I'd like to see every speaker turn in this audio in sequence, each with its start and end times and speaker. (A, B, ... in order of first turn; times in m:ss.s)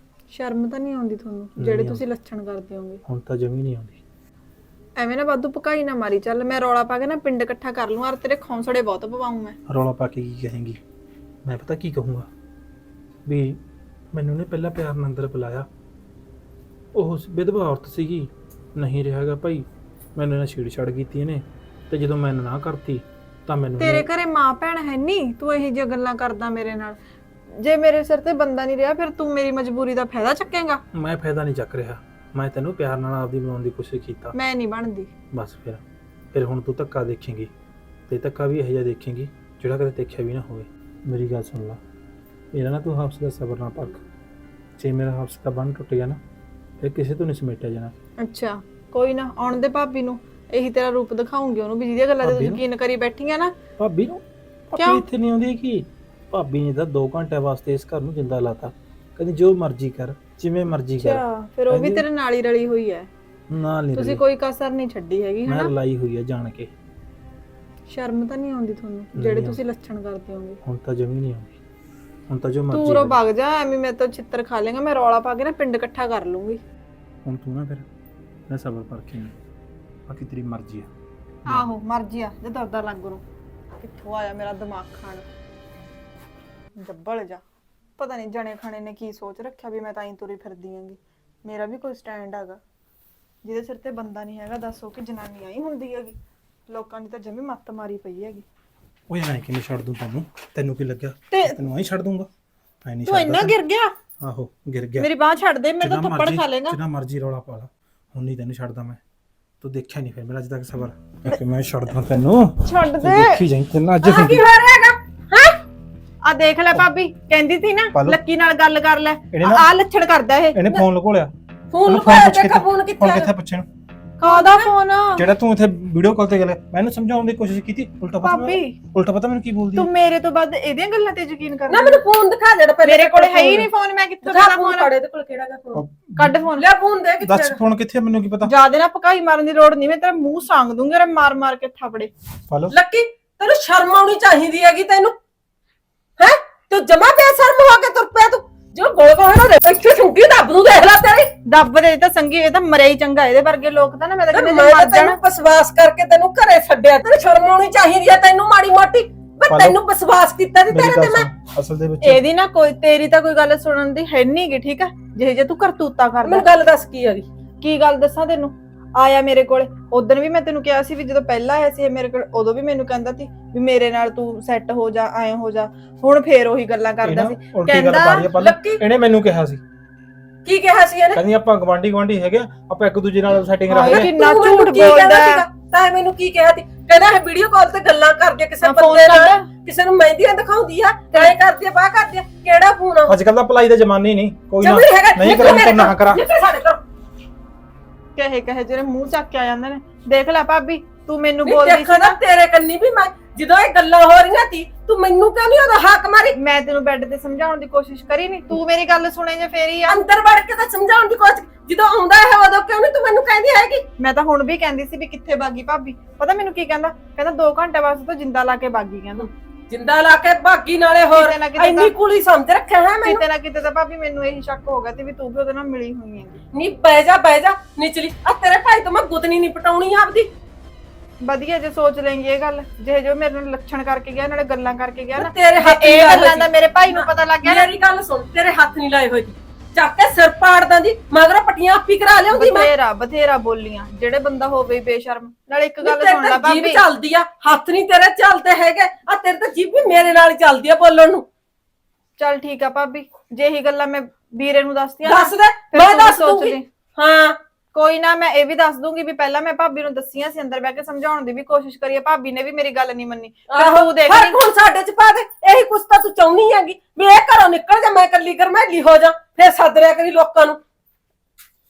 0:00.3-0:03.0 A
0:01.6-0:02.0 B
0:03.0-0:04.0 B
0:05.0-0:09.6 A
0:09.7-0:10.8 B
0:11.4-0:12.3 B
0:13.2-0:13.6 B
0:14.1-0:15.7 B
0:16.9-0:24.1 B
0:23.8-0:27.0 A
0:27.5-0:30.8 A
0:30.9-0:34.3 B
0:34.3-0:35.1 A
0:35.3-0:37.5 B
0:38.1-0:41.8 B
0:42.5-0:44.0 B
0:44.8-0:46.2 B
0:46.8-0:47.9 B
0:48.2-0:53.6 A
0:52.2-0:52.6 B
0:53.8-1:02.0 B
0:54.8-0:55.0 A
1:01.0-1:03.1 A
1:03.5-1:04.2 B
1:03.9-1:05.7 A
1:05.4-1:06.7 B
1:07.9-1:10.6 A
1:09.1-1:09.6 B
1:10.6-1:11.6 B
1:12.3-1:13.2 B
1:12.7-1:16.6 A
1:17.2-1:17.9 B
1:18.5-1:19.3 B
1:20.1-1:20.9 B
1:21.4-1:23.2 A
1:23.8-1:25.3 A
1:26.8-1:27.4 A
1:28.0-1:32.6 A
1:33.4-1:38.4 A
1:39.1-1:42.3 B
1:41.3-1:41.6 A
1:42.8-1:43.6 B
1:43.0-1:44.0 A
1:44.2-1:45.1 B
1:45.0-1:46.8 A
1:45.8-1:49.0 B
1:49.6-1:54.4 B
1:52.6-1:53.4 A
1:54.0-1:55.6 C
1:56.2-2:00.6 A
1:57.9-1:58.2 B
1:59.3-1:59.7 B
2:00.5-2:01.3 B
2:01.7-2:03.3 C
2:01.8-2:03.7 B
2:04.2-2:05.3 A
2:04.2-2:04.7 C
2:05.2-2:09.9 B
2:08.2-2:08.8 A
2:09.7-2:12.0 A
2:11.7-2:13.7 C
2:12.8-2:14.9 A
2:14.2-2:15.8 C
2:15.7-2:16.4 B
2:16.2-2:16.6 A
2:16.6-2:17.6 C
2:17.2-2:18.5 B
2:18.4-2:22.1 A
2:22.5-2:22.7 B
2:22.7-2:25.1 C
2:26.2-2:31.3 C
2:31.4-2:35.2 A
2:34.3-2:41.3 C
2:39.5-2:39.8 B
2:40.7-2:42.2 B
2:42.0-2:46.5 A
2:46.2-2:47.3 C
2:47.6-2:58.4 A
2:57.0-2:59.6 B
2:58.3-2:58.8 C
3:00.4-3:01.2 C
3:01.1-3:04.1 B
3:03.7-3:05.4 A
3:03.8-3:13.2 C
3:08.6-3:09.4 A
3:13.1-3:16.2 B
3:14.6-3:16.8 C
3:18.2-3:22.2 A
3:21.4-3:26.4 C
3:26.4-3:30.0 A
3:29.9-3:33.8 C
3:34.0-3:39.3 A
3:39.2-3:43.2 C
3:41.1-3:41.9 A
3:43.0-3:46.4 A
3:46.5-3:50.3 C
3:51.2-3:57.7 A
3:55.2-4:02.7 C
4:02.3-4:06.8 A
4:05.8-4:11.2 C
4:12.2-4:16.6 A
4:15.0-4:17.4 C
4:17.7-4:24.4 A
4:23.5-4:30.6 C